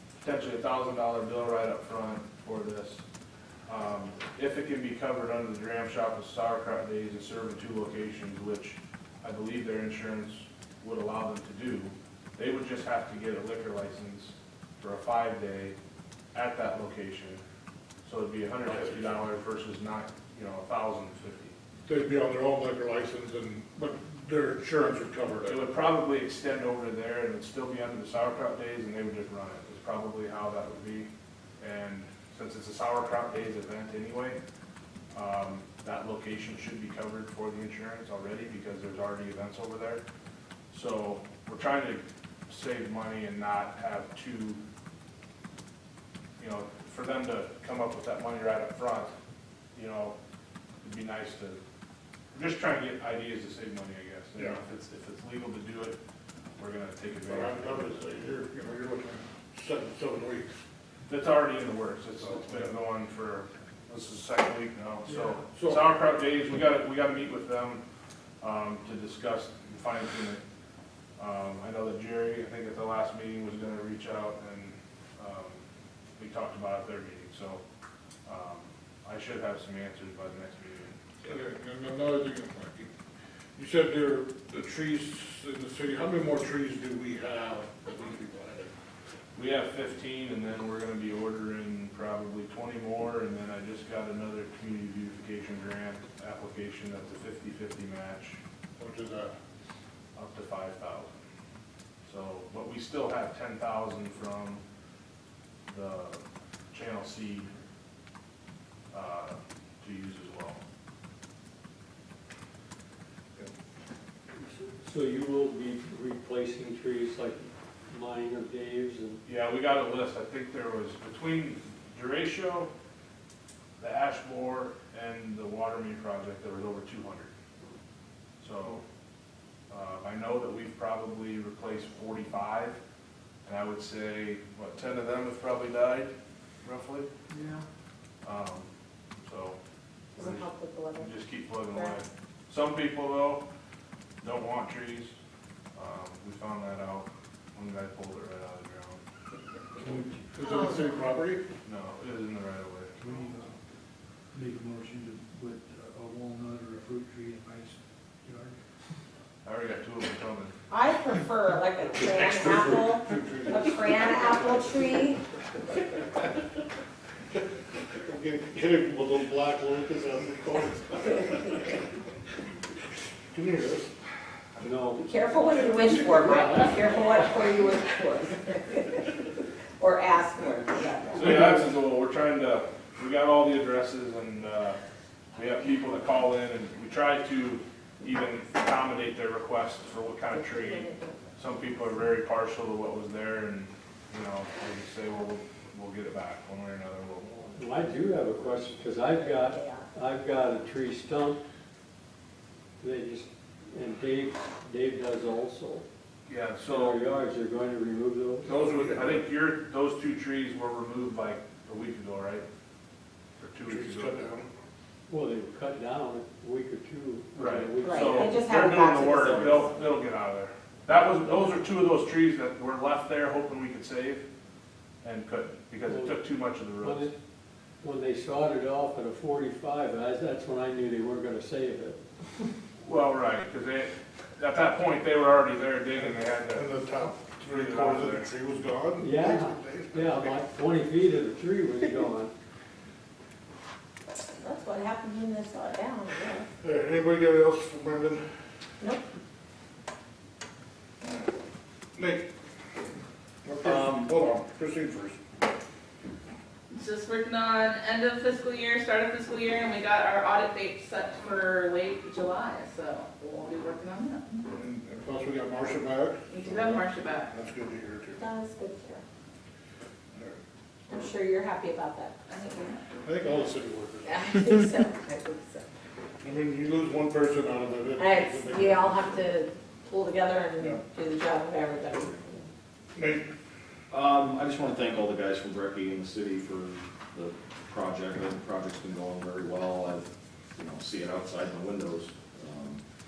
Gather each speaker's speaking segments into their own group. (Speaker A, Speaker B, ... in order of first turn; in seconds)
Speaker A: 0.2-3.0, 3.7-15.8, 16.3-17.4, 18.0-21.6, 25.4-34.4, 35.1-40.0, 40.7-44.6, 46.4-49.1, 49.8-50.1, 50.8-51.6, 52.3-56.0, 56.6-58.0, 61.1-67.8, 68.4-70.4, 71.2-75.6, 76.2-77.6, 78.3-81.3, 89.4-98.4, 100.2-101.1, 102.1-104.6, 105.7-107.5, 108.9-110.6, 119.2-122.7, 123.8-127.3, 128.4-128.8, 129.7-132.8, 133.4-136.1, 136.6-137.1, 138.2-138.7, 139.2-139.6, 140.2-143.4, 144.2-145.2, 145.8-149.0, 151.7-152.9, 159.4-160.6, 181.2-184.8, 185.3-197.6, 206.3-207.0, 208.4-212.4, 213.4-214.3, 217.3-224.3, 225.0-227.1, 232.8-238.3
Speaker B: 18.7-18.9, 21.9-25.5, 57.3-60.5, 62.3-62.7, 81.2-82.9, 83.6-88.7, 98.8-99.3, 150.5-151.4, 162.0-164.0, 168.1-171.2, 173.3-173.9, 208.5-209.2, 213.7-214.5, 236.0-240.4, 246.6-248.2, 252.0-252.3, 253.4-255.2, 264.6-266.8, 267.3-268.2, 273.1-274.3, 276.2-279.3, 282.9-283.2
Speaker C: 114.5-119.2, 174.6-175.1, 176.2-176.8, 197.5-201.4, 202.8-205.8, 206.7-208.5, 215.1-218.5, 225.8-227.1, 227.8-232.0, 239.0-242.3
Speaker D: 140.2-141.2, 160.7-165.2, 175.0-181.3, 190.4-191.2, 199.2-199.9, 217.8-219.7, 244.4-246.5, 268.2-269.0, 270.9-272.2, 274.1-275.7, 278.0-282.5
Speaker E: 154.4-158.5
Speaker F: 253.6-254.1, 283.9-292.8
Speaker G: 256.7-264.5, 266.3-267.3, 272.3-273.6